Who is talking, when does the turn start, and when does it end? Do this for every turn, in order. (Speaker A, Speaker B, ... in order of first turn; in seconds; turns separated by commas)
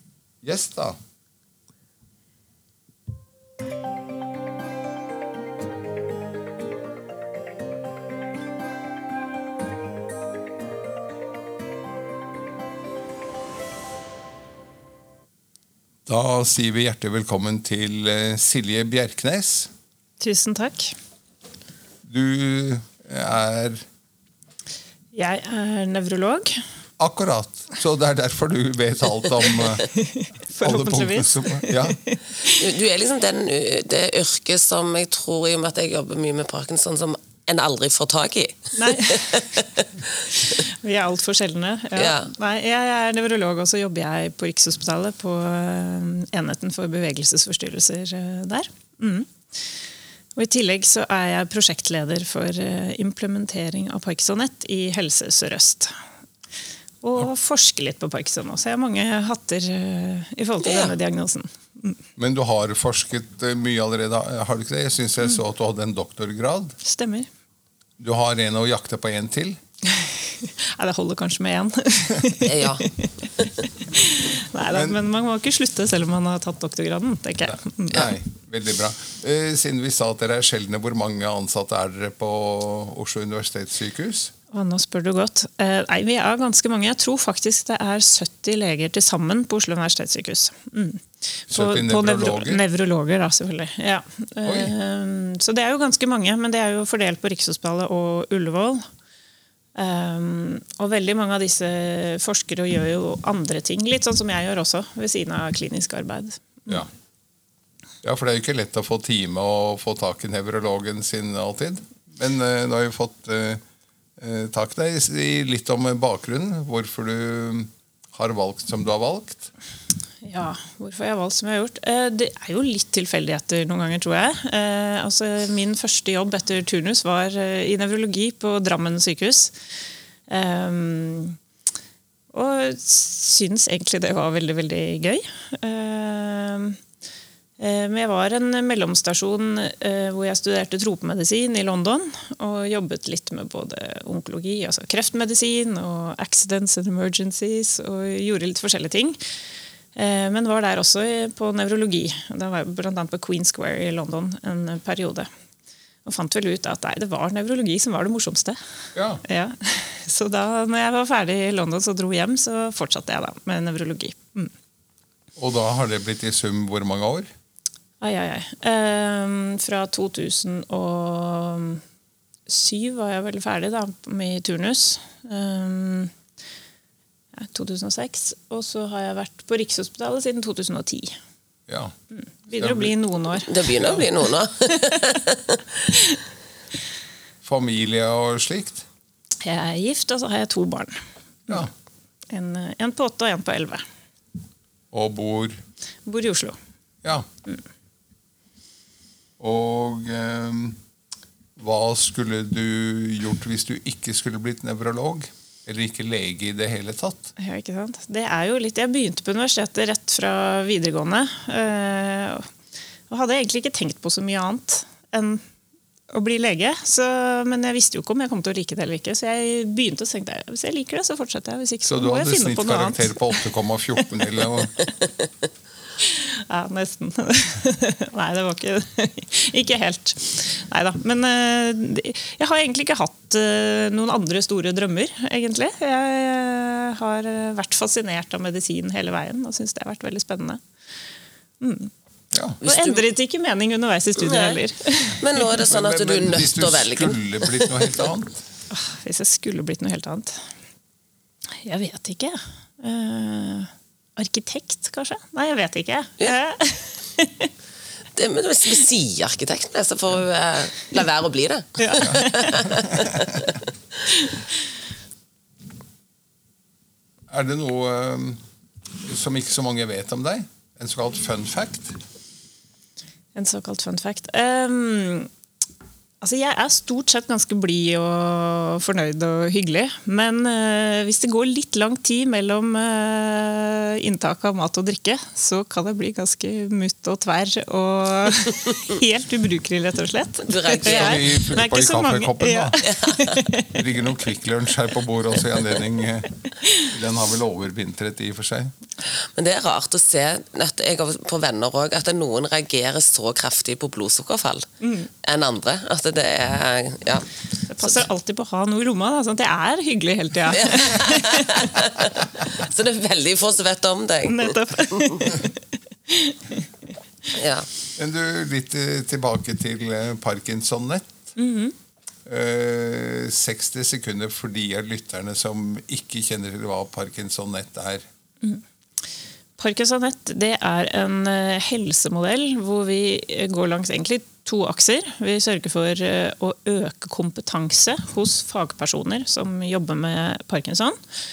Speaker A: 0.4-1.0, Speaker A: 16.1-19.7, Speaker B: 20.2-20.9, Speaker A: 22.0-23.8, Speaker B: 25.1-26.6, Speaker A: 27.0-29.9, Speaker B: 29.6-32.6, Speaker A: 30.6-32.0, Speaker C: 32.4-40.6, Speaker B: 38.8-39.6, Speaker B: 40.4-49.3, Speaker C: 41.9-42.3, Speaker B: 50.4-56.0, Speaker B: 57.0-62.0, Speaker C: 60.6-60.9, Speaker A: 62.2-66.7, Speaker B: 66.8-67.3, Speaker A: 68.0-69.6, Speaker B: 69.9-78.1, Speaker C: 72.4-72.9, Speaker A: 74.7-75.0, Speaker A: 77.5-84.3, Speaker B: 84.5-98.8, Speaker A: 91.5-92.6, Speaker A: 94.4-94.7, Speaker B: 99.7-106.8, Speaker A: 108.0-113.6, Speaker A: 114.2-119.5, Speaker B: 120.2-129.5, Speaker B: 130.3-131.4, Speaker B: 132.3-136.8, Speaker B: 137.6-149.2, Speaker B: 149.9-155.3, Speaker B: 156.0-158.6, Speaker A: 158.9-159.2, Speaker B: 159.2-164.5, Speaker A: 165.3-167.3, Speaker B: 168.0-171.8, Speaker B: 172.5-176.1, Speaker B: 177.3-181.2, Speaker A: 181.7-181.9, Speaker B: 182.2-183.7, Speaker A: 182.5-182.9, Speaker C: 183.5-185.6, Speaker A: 183.7-184.0, Speaker A: 187.4-188.8, Speaker B: 189.4-191.7, Speaker B: 192.3-193.8, Speaker A: 194.9-195.6, Speaker B: 196.1-196.6, Speaker A: 199.4-200.8, Speaker A: 201.6-207.3, Speaker B: 207.4-212.5, Speaker B: 213.1-215.4, Speaker B: 216.1-223.5, Speaker A: 221.8-224.7, Speaker B: 226.0-240.6, Speaker B: 241.6-241.9, Speaker A: 242.3-242.6, Speaker C: 242.6-243.1, Speaker B: 242.6-245.4, Speaker C: 244.2-244.6, Speaker C: 245.1-248.0, Speaker A: 245.6-248.4, Speaker B: 248.7-250.4, Speaker B: 251.6-257.5, Speaker C: 258.1-263.6, Speaker B: 261.8-262.9, Speaker A: 262.0-263.4, Speaker B: 264.1-264.4, Speaker A: 267.3-268.4, Speaker A: 269.0-272.0, Speaker B: 273.3-275.3, Speaker B: 276.2-293.8, Speaker C: 290.4-291.3, Speaker A: 290.8-292.8, Speaker C: 292.8-293.4, Speaker A: 293.7-298.7, Speaker B: 296.6-296.9, Speaker C: 299.1-304.7, Speaker B: 304.8-305.1, Speaker C: 305.2-307.3, Speaker B: 307.7-311.9, Speaker C: 310.5-315.3, Speaker B: 314.3-316.7, Speaker C: 317.3-317.7, Speaker A: 317.9-321.3, Speaker B: 321.4-321.7, Speaker A: 322.2-328.1, Speaker B: 329.6-341.0